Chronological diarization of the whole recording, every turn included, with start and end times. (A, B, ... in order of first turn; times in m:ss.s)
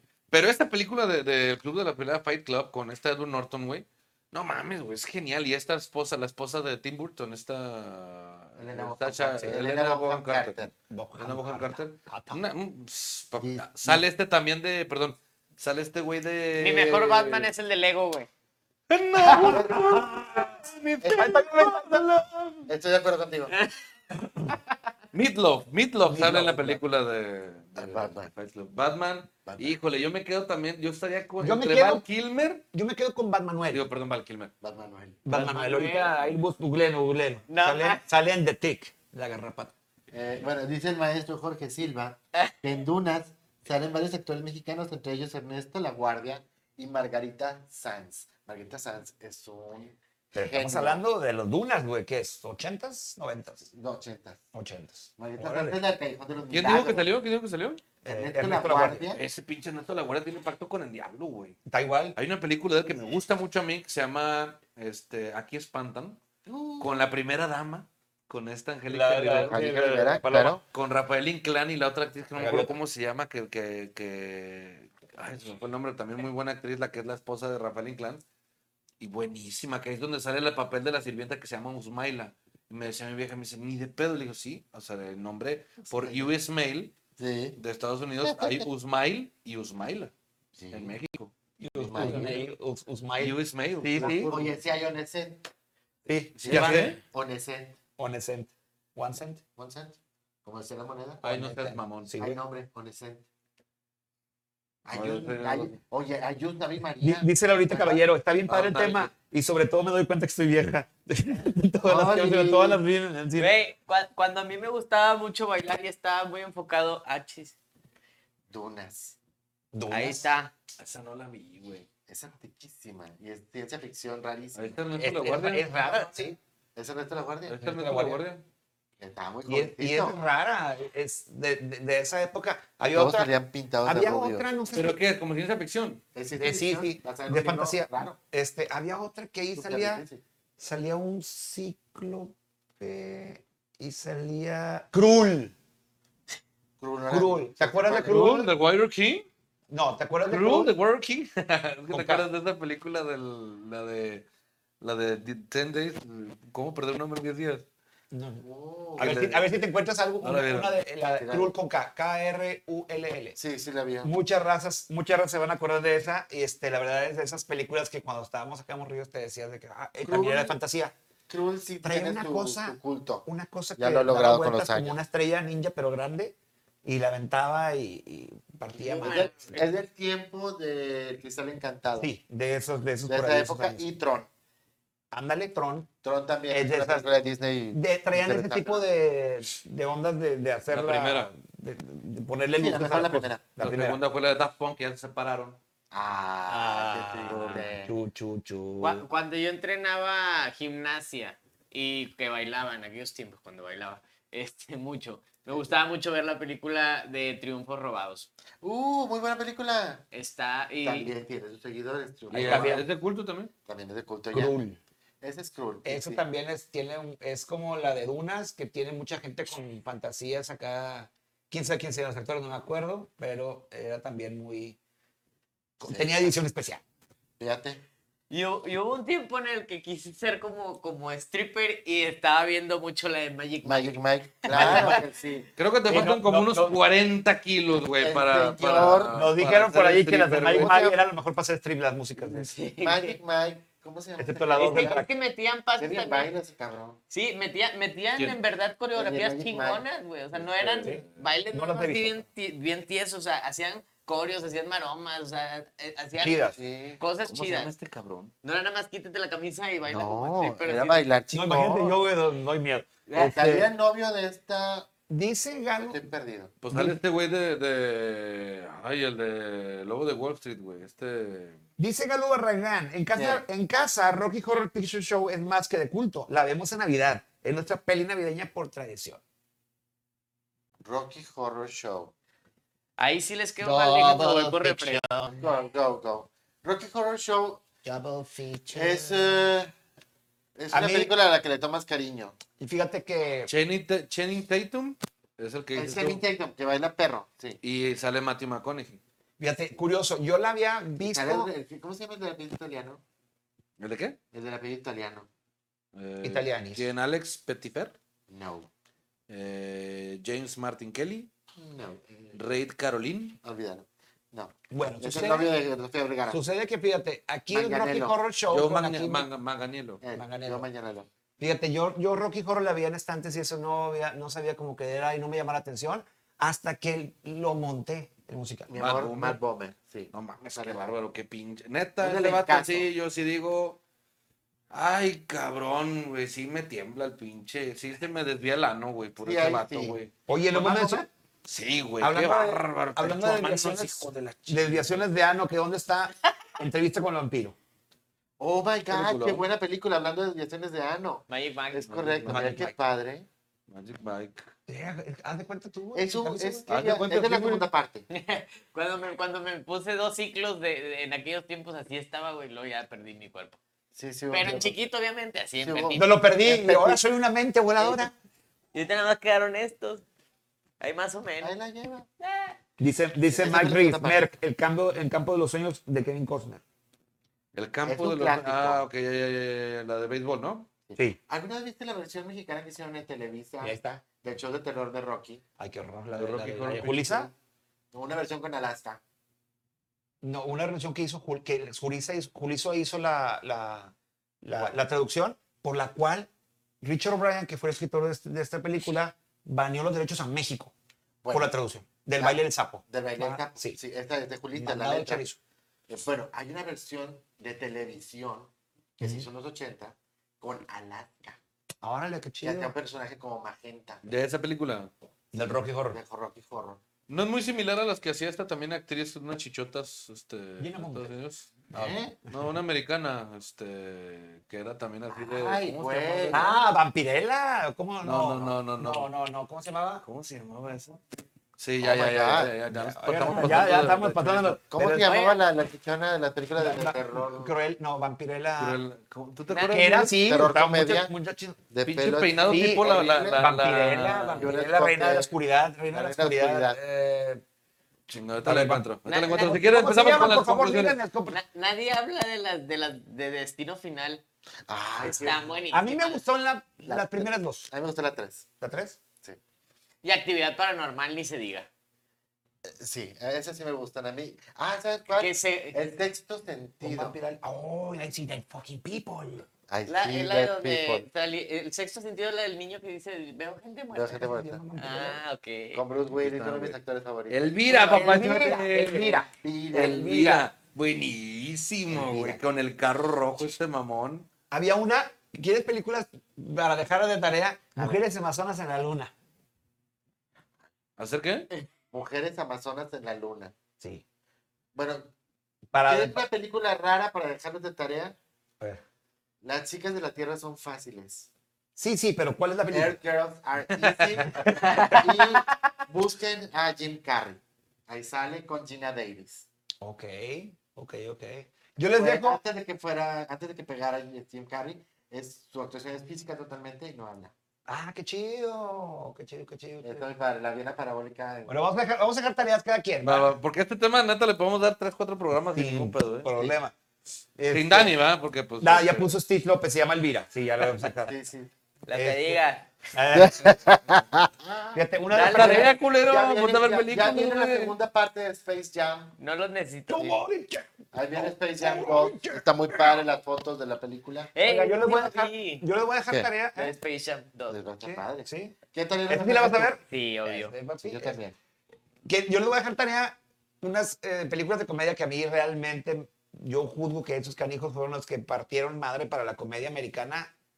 0:00.3-0:10.6 A
0:08.6-0:10.7 B
0:10.9-0:12.4 C
0:11.2-0:17.5 A
0:13.4-0:14.0 B
0:16.6-0:18.3 D
0:18.9-0:22.7 A
0:19.3-0:20.0 B
0:21.0-0:21.3 B
0:21.1-0:22.1 C
0:22.7-0:23.5 B
0:25.1-0:32.6 A
0:26.0-0:26.8 C
0:27.8-0:28.3 B
0:29.4-0:29.7 B
0:31.4-0:32.0 C
0:32.7-0:33.8 C
0:33.7-0:34.5 A
0:34.6-0:35.2 B
0:35.2-0:39.7 C
0:35.3-0:36.2 D
0:37.5-0:38.0 D
0:40.1-0:51.0 B
0:50.3-0:53.7 C
0:53.7-0:54.4 B
0:54.5-0:55.8 C
0:55.2-0:57.1 B
0:56.5-0:57.8 A
0:58.0-0:59.1 C
0:58.1-0:59.2 B
0:59.1-1:01.6 A
1:01.7-1:02.2 C
1:02.2-1:06.2 A
1:06.4-1:06.9 B
1:06.8-1:09.8 A
1:08.9-1:10.6 C
1:09.4-1:10.6 B
1:10.7-1:18.2 A
1:12.4-1:12.7 C
1:19.0-1:26.9 A
1:25.8-1:26.3 B
1:27.2-1:27.6 B
1:27.6-1:30.1 A
1:28.2-1:28.7 B
1:30.6-1:31.0 B
1:30.7-1:31.3 A
1:31.6-1:34.5 C
1:31.8-1:32.4 B
1:31.9-1:32.3 A
1:33.2-1:34.4 A
1:34.0-1:35.4 B
1:36.0-1:37.0 C
1:36.4-1:37.8 B
1:36.5-1:37.0 A
1:38.0-1:39.4 C
1:39.6-1:41.2 B
1:41.2-1:42.1 A
1:41.2-1:42.4 C
1:42.2-1:43.2 B
1:44.8-1:48.0 B
1:44.9-1:45.7 A
1:47.0-1:53.5 C
1:48.5-1:49.1 A
1:51.8-1:52.8 B
1:53.4-1:57.5 D
1:58.5-1:59.2 B
1:59.7-2:00.2 C
1:59.9-2:00.5 D
2:00.8-2:01.9 A
2:02.1-2:04.8 B
2:04.5-2:05.7 A
2:05.0-2:06.4 C
2:06.8-2:07.8 B
2:07.5-2:08.4 A
2:07.7-2:08.2 C
2:09.0-2:10.2 B
2:09.5-2:13.3 C
2:12.9-2:14.5 B
2:13.8-2:15.0 C
2:14.7-2:16.0 A
2:16.1-2:18.2 B
2:16.4-2:20.0 C
2:19.6-2:20.2 B
2:20.6-2:25.5 C
2:26.8-2:28.5 B
2:27.1-2:28.5 C
2:28.0-2:29.2 A
2:29.7-2:30.7 C
2:30.2-2:34.2 A
2:31.9-2:32.2 C
2:34.8-2:37.6 A
2:38.1-2:38.4 C
2:38.4-2:39.4 B
2:39.0-2:39.4 A
2:39.0-2:43.4 C
2:40.2-2:40.7 A
2:41.2-2:41.5 B
2:43.4-2:44.1 B
2:44.0-2:50.9 C
2:50.0-2:50.6 B
2:51.3-2:55.0 B
2:51.8-2:59.6 C
2:58.7-3:02.1 B
2:59.0-2:59.6 D
3:02.0-3:03.8 C
3:03.1-3:04.3 B
3:05.1-3:05.9 C
3:06.0-3:08.8 B
3:06.5-3:07.0 C
3:07.7-3:14.0 C
3:10.7-3:11.3 A
3:12.6-3:13.4 B
3:13.6-3:15.6 A
3:15.9-3:17.9 B
3:16.5-3:19.0 C
3:17.3-3:17.6 A
3:18.8-3:28.3 D
3:28.6-3:30.0 B
3:30.1-3:31.1 D
3:30.8-3:32.8 B
3:32.3-3:33.5 A
3:32.3-3:32.8 C
3:33.6-3:34.5 B
3:34.3-3:34.8 C
3:35.2-3:36.2 B
3:35.8-3:44.8 C
3:45.8-3:46.8 C
3:45.8-3:46.3 B
3:47.4-3:47.8 B
3:48.3-3:55.0 D
3:53.6-3:55.5 B
3:54.5-3:55.0 C
3:55.6-4:00.8 A
3:55.9-3:56.8 C
3:58.0-3:59.1 B
3:59.1-4:02.5 C
4:00.4-4:01.0 B
4:02.2-4:03.2 D
4:02.8-4:05.0 B
4:04.2-4:05.1 C
4:04.6-4:06.3 D
4:05.8-4:07.0 B
4:07.1-4:17.7 D
4:08.9-4:09.8 B
4:10.6-4:11.1 A
4:10.8-4:12.2 C
4:16.2-4:16.6 C
4:16.5-4:17.0 B
4:17.2-4:18.3 A
4:18.4-4:21.0 D
4:19.8-4:21.9 B
4:21.3-4:23.7 C
4:23.1-4:23.3 D
4:23.1-4:24.9 B
4:25.1-4:26.0 C
4:25.8-4:26.5 B
4:26.6-4:31.6 A
4:26.7-4:27.0 C
4:31.8-4:39.2 C
4:33.1-4:33.4 B
4:40.8-4:42.1 B
4:43.0-4:45.0 D
4:43.6-4:45.4 C
4:45.3-4:47.6 B
4:47.8-4:49.5 C
4:48.7-4:49.7 B
4:50.6-4:52.4 B
4:50.7-4:51.1 C
4:52.6-4:53.5 C
4:53.5-4:56.2 A
4:55.7-4:57.6 B
4:57.6-4:59.0 A
4:59.4-5:01.5 C
5:01.0-5:03.0 B
5:03.8-5:04.2 A
5:04.3-5:05.3 B
5:05.9-5:08.0 A
5:06.2-5:06.9 C
5:08.3-5:08.7 B
5:09.3-5:11.3 A
5:11.6-5:12.4 B
5:12.3-5:13.4 A
5:13.4-5:16.4 B
5:14.7-5:15.5 C
5:16.3-5:19.3 C
5:17.5-5:18.2 B
5:18.5-5:20.0 A
5:20.0-5:21.1 B
5:20.2-5:20.6 C
5:21.4-5:28.7 C
5:28.7-5:30.9 B
5:28.8-5:29.4 A
5:30.1-5:33.8 A
5:32.0-5:32.9 B
5:34.7-5:40.1 A
5:39.2-5:40.0 B
5:40.3-5:41.0 C
5:40.5-5:41.1 B
5:41.4-5:45.0 A
5:42.0-5:47.6 C
5:48.4-5:53.3 B
5:48.9-5:49.4 A
5:51.3-5:52.2 D
5:51.9-5:52.6 A
5:52.3-5:52.7 C
5:53.7-5:54.5 A
5:54.7-5:56.6 C
5:55.9-5:58.0 B
5:56.7-5:57.6 A
5:58.1-6:03.6 D
6:03.9-6:04.7 B
6:04.3-6:06.1 D
6:05.6-6:07.0 B
6:06.0-6:08.1 C
6:07.8-6:08.1 B
6:08.7-6:10.0 D
6:10.8-6:11.5 D
6:11.4-6:12.1 B
6:12.2-6:12.6 D
6:12.8-6:16.6 C
6:13.3-6:14.2 B
6:17.5-6:20.7 A
6:17.8-6:18.8 B
6:20.9-6:25.4 B
6:23.6-6:24.0 C
6:25.6-6:27.3 C
6:26.1-6:27.3 A
6:27.9-6:29.0 B
6:30.2-6:36.3 C
6:36.8-6:40.7 C
6:41.2-6:41.5 B
6:41.3-6:43.8 C
6:42.2-6:45.2 B
6:44.5-6:45.4 C
6:45.9-6:51.4 B
6:49.0-6:49.2 C
6:51.8-6:52.7 C
6:52.4-6:54.0 B
6:54.0-6:54.9 A
6:55.3-6:56.0 C
6:55.9-6:56.8 B
6:57.1-7:01.6 A
7:00.6-7:01.1 C
7:01.7-7:02.2 B
7:01.7-7:02.5 C
7:02.3-7:06.5 A
7:05.1-7:06.5 B
7:06.3-7:10.0 C
7:08.0-7:09.1 A
7:10.0-7:11.0 A
7:11.6-7:14.6 A
7:11.8-7:12.5 B
7:12.7-7:15.1 C
7:13.3-7:14.0 B
7:14.6-7:17.5 B
7:14.9-7:15.4 D
7:16.6-7:18.8 C
7:18.6-7:20.1 A
7:19.5-7:19.7 D
7:19.6-7:21.6 C
7:20.1-7:21.1 B
7:21.7-7:23.7 B
7:21.8-7:24.5 A
7:22.4-7:27.4 C
7:24.3-7:25.3 B
7:25.9-7:26.8 B
7:28.1-7:31.0 A
7:28.4-7:31.4 C
7:29.0-7:29.6 D
7:31.3-7:34.2 D
7:34.7-7:35.5 B
7:35.0-7:36.2 D
7:35.7-7:37.7 C
7:36.9-7:38.5 B
7:38.6-7:39.0 C
7:40.0-7:41.7 D
7:42.6-7:47.1 B
7:45.1-7:45.8 D
7:46.8-7:49.5 C
7:49.7-7:51.1 B
7:49.8-7:54.2 D
7:53.9-7:54.6 B
7:54.1-7:55.2 C
7:54.8-7:55.8 D
7:55.7-8:00.1 B
7:56.1-7:56.8 A
7:57.3-8:04.3 A
7:57.7-8:00.5 C
8:01.9-8:02.4 B
8:04.5-8:09.1 C
8:11.0-8:11.5 A
8:11.9-8:13.5 B
8:14.7-8:15.1 B
8:15.7-8:16.2 C
8:15.8-8:18.2 B
8:19.4-8:21.3 B
8:21.8-8:23.0 C
8:22.7-8:29.4 B
8:23.8-8:24.3 A
8:24.4-8:25.6 D
8:29.8-8:32.4 C
8:32.0-8:37.3 B
8:37.7-8:40.1 C
8:39.8-8:41.5 B
8:41.5-8:43.4 C
8:43.0-8:46.3 A
8:45.5-8:46.7 C
8:47.4-8:48.0 C
8:47.5-8:49.1 A
8:48.6-8:51.1 C
8:51.0-8:51.5 B
8:51.8-8:52.7 D
8:51.9-8:52.4 C
8:52.9-8:53.6 C
8:53.1-8:59.2 B
8:54.7-8:55.7 C
8:55.1-8:57.7 A
8:59.2-9:00.2 D
8:59.9-9:03.0 C
9:00.9-9:04.3 B
9:04.3-9:05.6 D
9:04.4-9:06.8 C
9:06.6-9:07.6 D
9:07.5-9:09.8 B
9:07.8-9:08.6 C
9:09.1-9:11.2 C
9:09.9-9:10.5 D
9:10.8-9:11.4 B
9:12.0-9:20.3 C